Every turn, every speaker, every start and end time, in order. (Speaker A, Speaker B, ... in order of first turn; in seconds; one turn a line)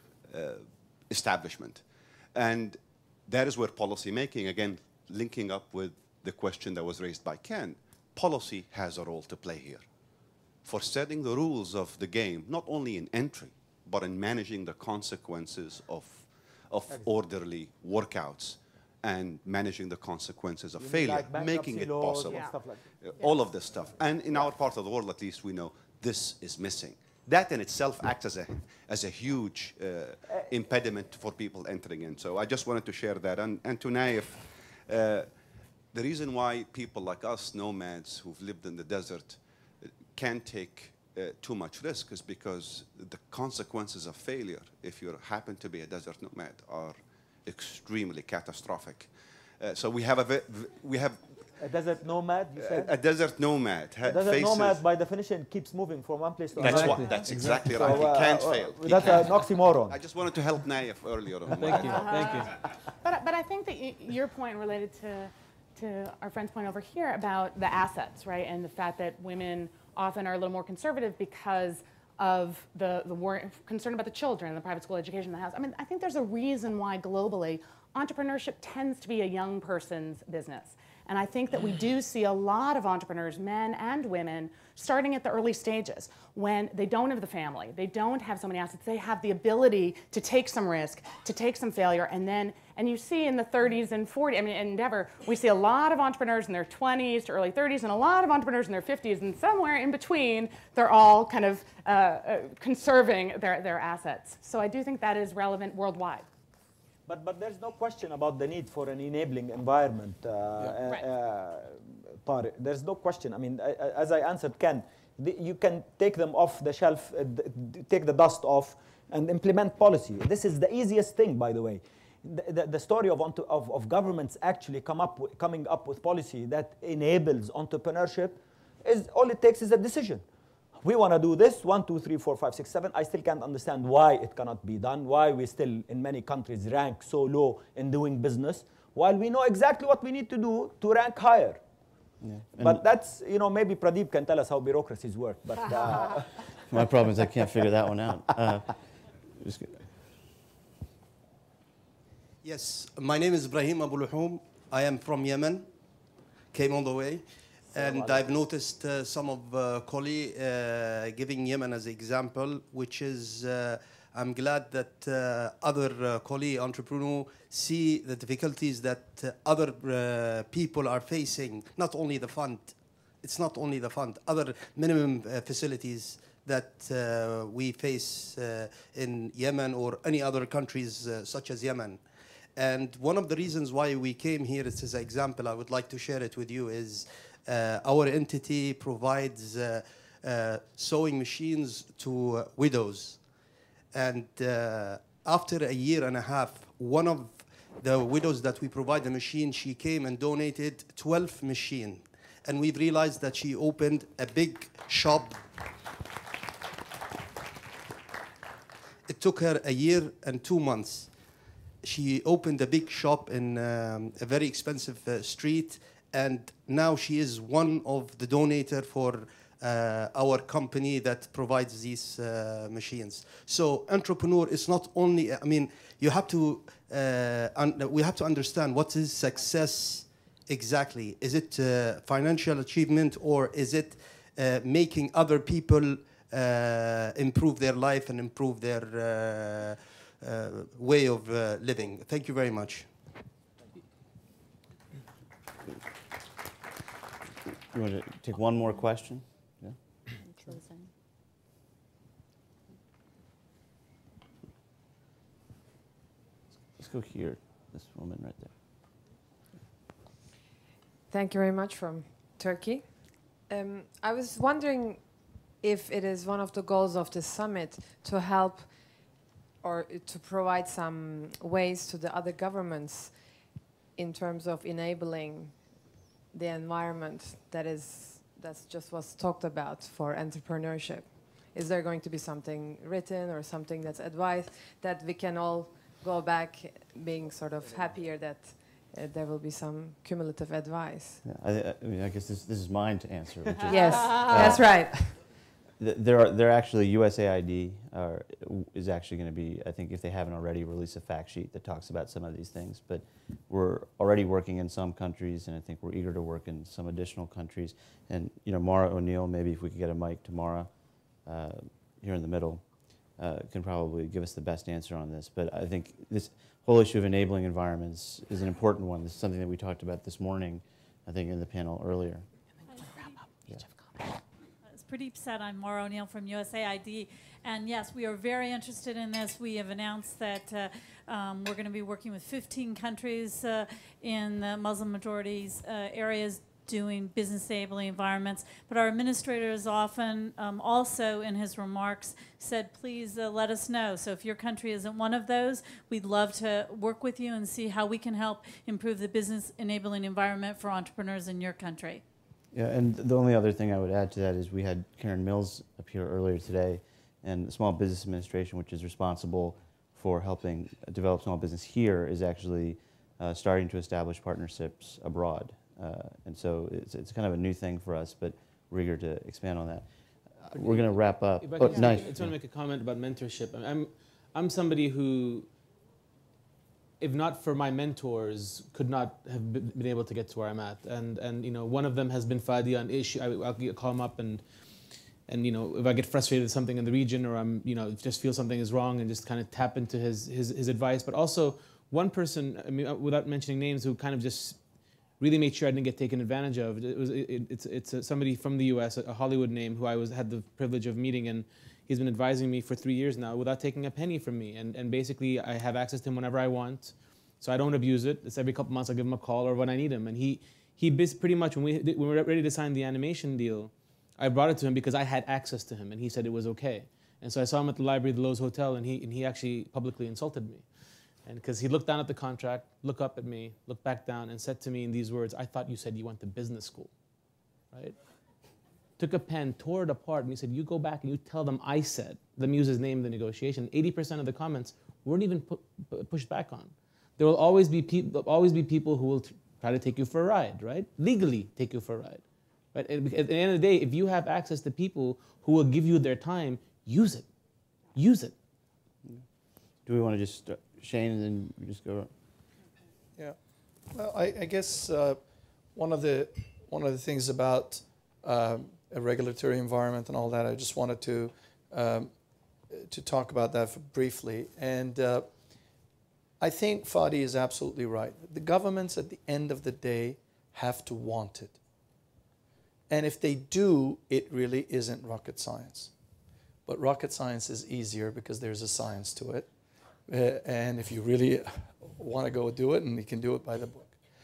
Speaker A: 0.3-9.9
Speaker A: 10.6-35.4
Speaker B: 20.8-22.9
Speaker C: 22.3-22.6
Speaker A: 35.9-51.4
Speaker B: 51.6-52.9
Speaker A: 52.6-54.8
Speaker B: 54.0-60.0
Speaker A: 56.6-62.6
Speaker D: 56.6-57.8
Speaker D: 61.5-62.5
Speaker C: 61.9-106.3
Speaker B: 107.1-130.2
Speaker B: 130.8-141.6
Speaker E: 142.2-142.8
Speaker B: 142.6-146.5
Speaker E: 146.7-148.8
Speaker E: 149.4-149.8
Speaker F: 152.4-155.7
Speaker F: 156.5-193.2
Speaker B: 157.7-158.4
Speaker F: 193.9-205.4
Speaker F: 209.1-211.2
Speaker F: 211.8-242.9
Speaker E: 247.7-249.8
Speaker E: 256.8-258.5
Speaker G: 261.1-262.8
Speaker G: 263.5-265.0
Speaker G: 265.6-268.7
Speaker G: 269.6-273.1
Speaker G: 274.0-275.6
Speaker G: 276.3-291.2
Speaker E: 291.2-295.0
Speaker C: 293.6-294.5
Speaker G: 293.7-295.2
Speaker E: 295.8-310.7
Speaker E: 311.3-312.6
Speaker E: 313.2-322.3
Speaker C: 322.7-324.1
Speaker H: 324.7-352.0
Speaker E: 352.5-369.9
Speaker E: 370.4-372.4
Speaker D: 370.6-375.5
Speaker D: 377.0-384.4
Speaker D: 385.3-394.6
Speaker D: 395.2-420.6
Speaker D: 421.2-426.9
Speaker D: 429.0-442.2
Speaker D: 442.7-447.3
Speaker D: 447.9-448.3
Speaker E: 449.9-452.1
Speaker I: 453.9-455.2
Speaker I: 455.7-462.1
Speaker I: 462.7-465.3
Speaker I: 466.4-471.6
Speaker I: 472.9-475.9
Speaker I: 476.6-479.5
Speaker I: 480.1-483.9